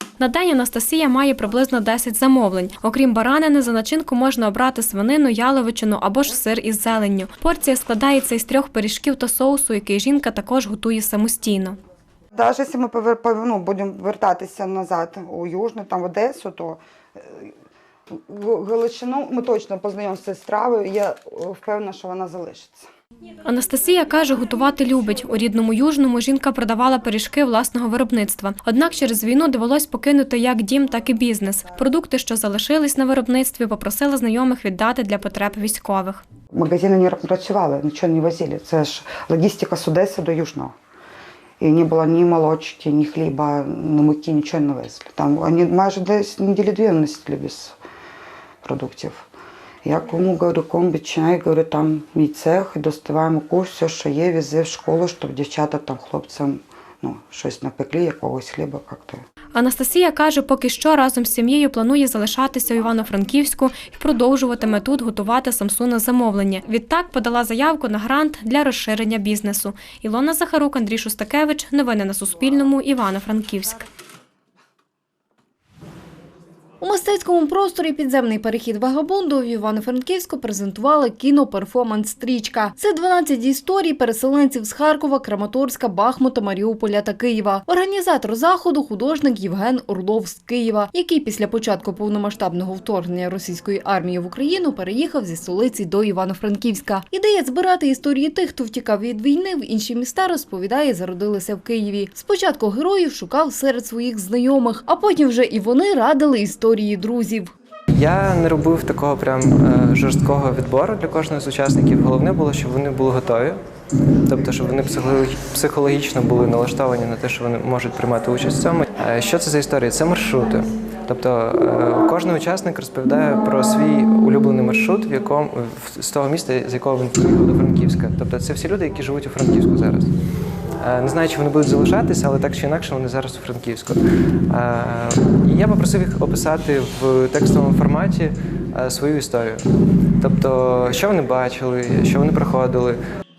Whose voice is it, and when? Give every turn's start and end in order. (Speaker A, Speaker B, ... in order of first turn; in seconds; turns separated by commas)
Speaker A: 0.2-11.8, Speaker B: 12.3-17.5, Speaker B: 18.3-22.9, Speaker A: 23.4-36.2, Speaker B: 36.5-40.7, Speaker B: 41.6-47.8, Speaker B: 48.6-49.2, Speaker B: 49.8-59.2, Speaker A: 59.5-73.8, Speaker C: 76.8-107.5, Speaker D: 107.9-113.6, Speaker D: 114.2-130.1, Speaker D: 130.8-139.6, Speaker D: 140.2-143.0